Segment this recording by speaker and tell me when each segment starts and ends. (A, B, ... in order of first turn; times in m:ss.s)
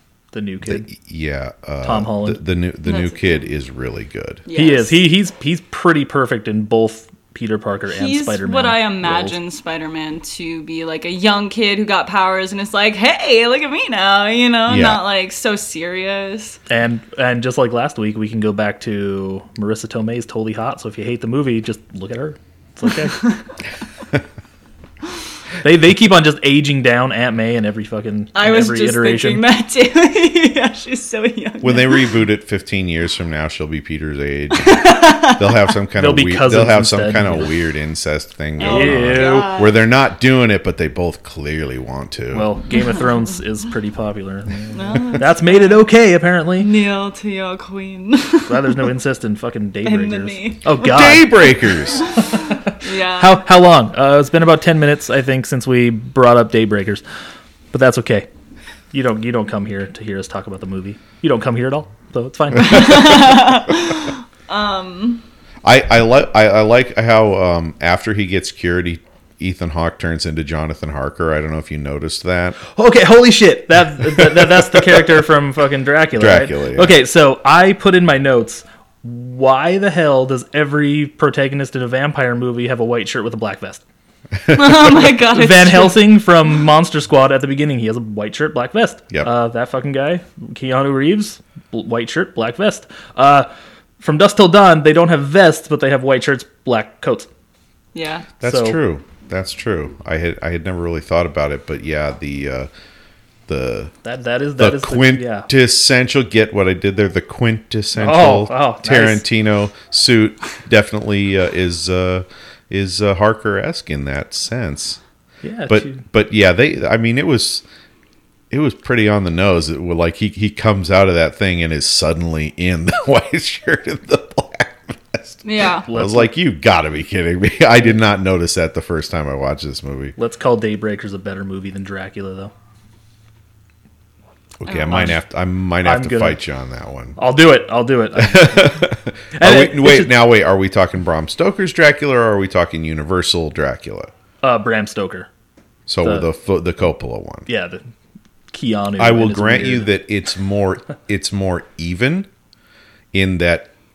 0:00.3-0:00.9 A
0:00.6-0:04.4 B
0:01.8-0:02.4 A
0:02.8-0:03.4 C
0:04.5-0:05.0 C
0:04.6-0:09.4 A
0:07.9-0:16.6 C
0:14.7-0:15.0 B
0:16.7-0:23.3 A
0:25.6-0:29.4 A
0:28.3-0:32.2 C
0:31.6-0:42.5 B
0:34.5-0:35.7 C
0:36.0-0:37.5 A
0:38.6-0:39.8 C
0:38.6-0:39.5 A
0:42.3-0:46.7 A
0:44.7-0:45.8 C
0:46.6-0:48.9 C
0:48.4-0:51.3 A
0:49.8-0:51.1 C
0:50.8-0:52.1 B
0:52.0-0:53.4 C
0:52.2-0:57.0 A
0:57.7-0:58.3 A
0:58.9-1:03.2 A
1:02.6-1:03.4 B
1:02.6-1:05.2 C
1:05.6-1:12.6 B
1:12.7-1:23.8 A
1:14.4-1:14.8 B
1:16.2-1:16.9 B
1:24.3-1:25.0 B
1:24.5-1:26.1 C
1:24.9-1:33.5 A
1:34.0-1:37.3 A
1:37.9-1:38.3 C
1:38.4-1:42.7 B
1:38.4-1:38.8 A
1:43.5-1:43.9 B
1:44.0-1:45.5 A
1:44.6-1:55.0 B
1:47.9-1:49.2 A
1:55.4-1:56.0 A
1:55.7-1:57.6 B
1:58.5-2:10.1 B
2:05.4-2:05.9 C
2:05.9-2:06.3 A
2:10.2-2:12.5 A
2:14.6-2:17.2 B
2:14.7-2:15.1 C
2:14.7-2:15.2 A
2:15.8-2:16.4 A
2:17.2-2:20.1 A
2:18.2-2:24.1 B
2:24.4-2:25.3 A
2:25.9-2:27.4 B
2:26.0-2:26.3 A
2:27.5-2:27.9 A
2:28.5-2:29.9 A
2:29.0-2:32.3 B
2:33.1-2:33.7 B